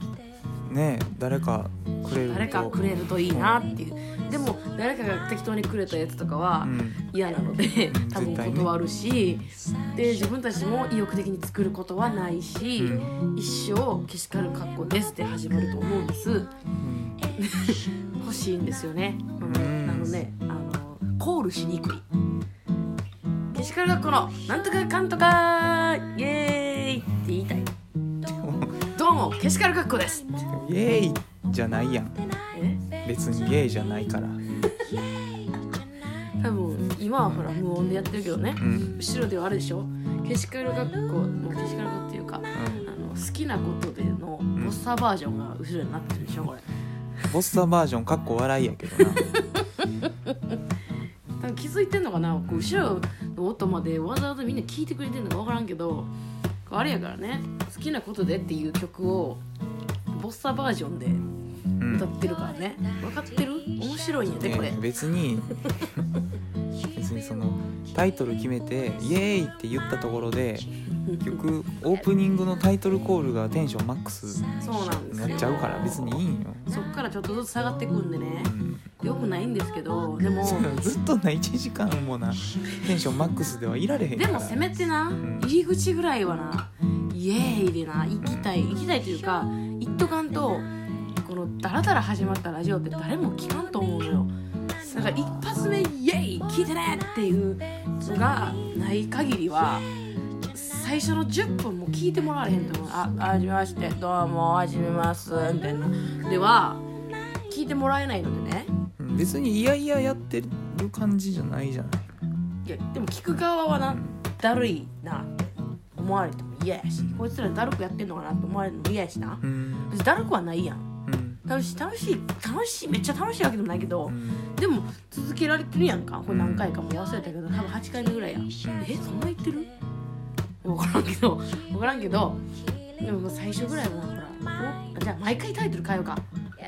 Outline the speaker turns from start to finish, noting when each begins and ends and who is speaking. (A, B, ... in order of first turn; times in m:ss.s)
0:00.6-0:03.7 A
0:02.2-0:16.5 B
0:06.6-0:07.0 A
0:07.9-0:08.7 A
0:12.8-0:13.1 A
0:16.8-0:17.2 A
0:17.4-0:22.0 B
0:19.4-0:20.3 A
0:23.5-0:27.7 B
0:28.2-0:28.8 A
0:28.9-0:30.5 B
0:30.5-0:32.2 A
0:32.5-0:32.8 B
0:33.0-0:34.4 A
0:36.4-0:46.7 B
0:38.6-0:39.0 A
0:42.5-0:42.8 A
0:47.2-0:49.3 A
0:49.0-0:50.6 B
0:51.4-0:56.1 B
0:52.5-0:52.8 A
0:56.6-0:59.4 B
1:00.1-1:01.2 B
1:01.8-1:02.1 A
1:01.9-1:04.8 B
1:04.4-1:06.0 A
1:06.9-1:10.7 A
1:11.0-1:11.4 B
1:11.2-1:14.5 A
1:14.6-1:20.7 B
1:15.1-1:16.7 A
1:18.4-1:18.8 A
1:20.4-1:24.6 A
1:24.1-1:30.7 B
1:25.2-1:25.5 A
1:28.2-1:28.5 A
1:31.2-1:39.9 B
1:40.5-1:46.8 B
1:47.5-1:48.7 B
1:49.0-1:52.1 A
1:52.6-2:00.9 B
1:53.9-1:54.2 A
1:57.0-1:57.3 A
1:59.4-1:59.9 A
2:01.1-2:01.4 A
2:01.4-2:09.7 B
2:04.1-2:04.4 A
2:06.3-2:06.7 A
2:08.6-2:08.9 A
2:10.6-2:12.4 B
2:13.0-2:16.2 B